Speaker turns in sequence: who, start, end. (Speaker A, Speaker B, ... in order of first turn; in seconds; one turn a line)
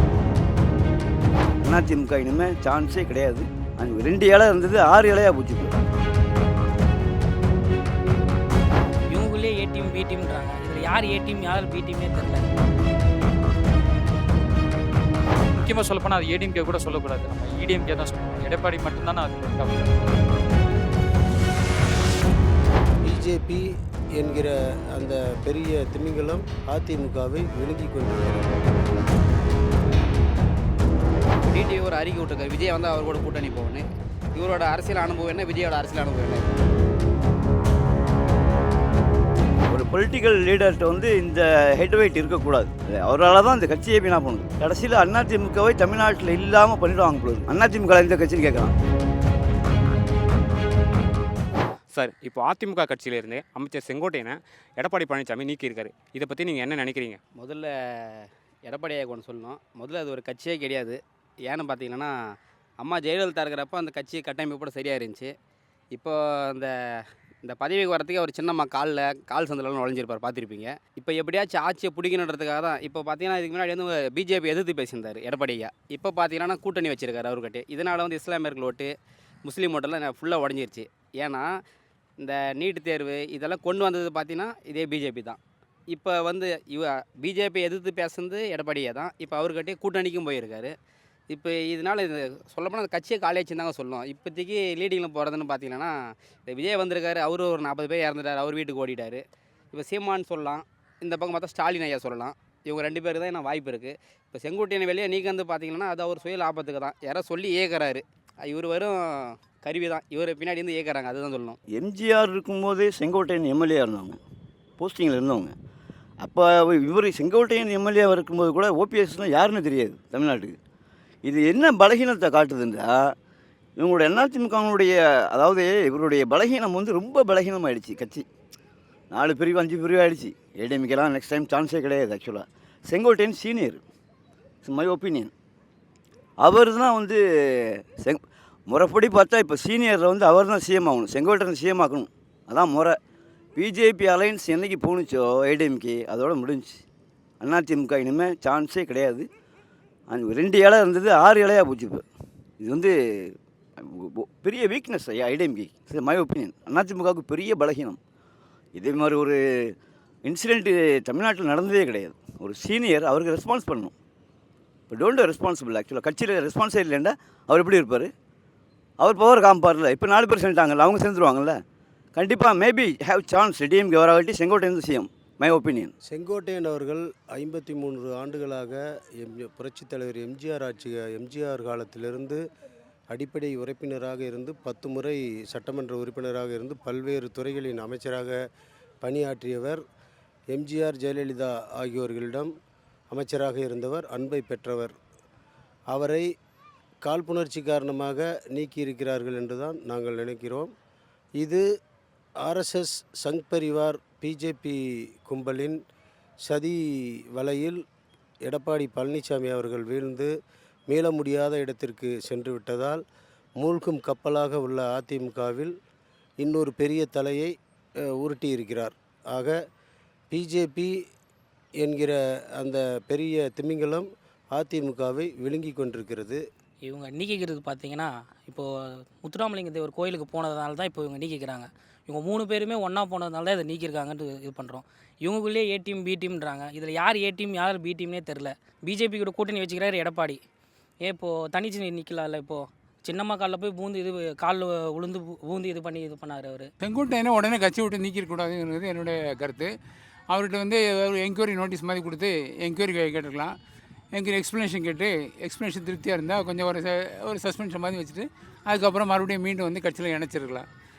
Speaker A: 1.6-5.8
Speaker B: 9.1-12.5
Speaker C: 15.5-19.8
Speaker D: 23.1-23.6
Speaker D: 24.1-28.6
Speaker E: 31.4-36.6
Speaker A: 39.7-48.7
Speaker F: 51.9-57.2
Speaker E: 57.4-62.1
Speaker E: 62.8-65.3
Speaker E: 65.9-66.7
Speaker E: 67.4-78.9
Speaker E: 79.4-81.5
Speaker E: 82.2-85.4
Speaker E: 85.9-90.7
Speaker E: 91.3-95.9
Speaker E: 96.5-111.6
Speaker A: 111.7-114.2
Speaker A: 114.8-115.5
Speaker A: 116.2-120.5
Speaker A: 121.2-123.1
Speaker A: 123.8-128.2
Speaker A: 129.1-133.8
Speaker A: 134.6-135.3
Speaker A: 136.4-142.9
Speaker A: 143.5-146.8
Speaker A: 147.4-149.3
Speaker A: 150.1-152.1
Speaker A: 152.6-158.0
Speaker A: 158.8-163.9
Speaker A: 164.9-168.1
Speaker A: 169.0-171.6
Speaker A: 172.1-175.9
Speaker D: 176.1-182.4
Speaker D: 183.1-188.4
Speaker D: 189.0-189.8
Speaker D: 190.5-192.5
Speaker D: 193.1-194.9
Speaker D: 195.9-196.2
Speaker D: 197.0-200.7
Speaker D: 202.4-205.8
Speaker D: 206.4-206.8
Speaker D: 207.3-207.8
Speaker D: 208.4-210.3
Speaker D: 210.9-213.0
Speaker D: 213.6-215.7
Speaker D: 216.4-217.5
Speaker D: 218.2-219.6
Speaker D: 220.3-220.9
Speaker D: 221.8-226.4
Speaker B: 226.8-240.4
Speaker B: 241.0-246.7
Speaker G: 246.8-249.7
Speaker G: 250.3-253.6
Speaker G: 254.1-260.7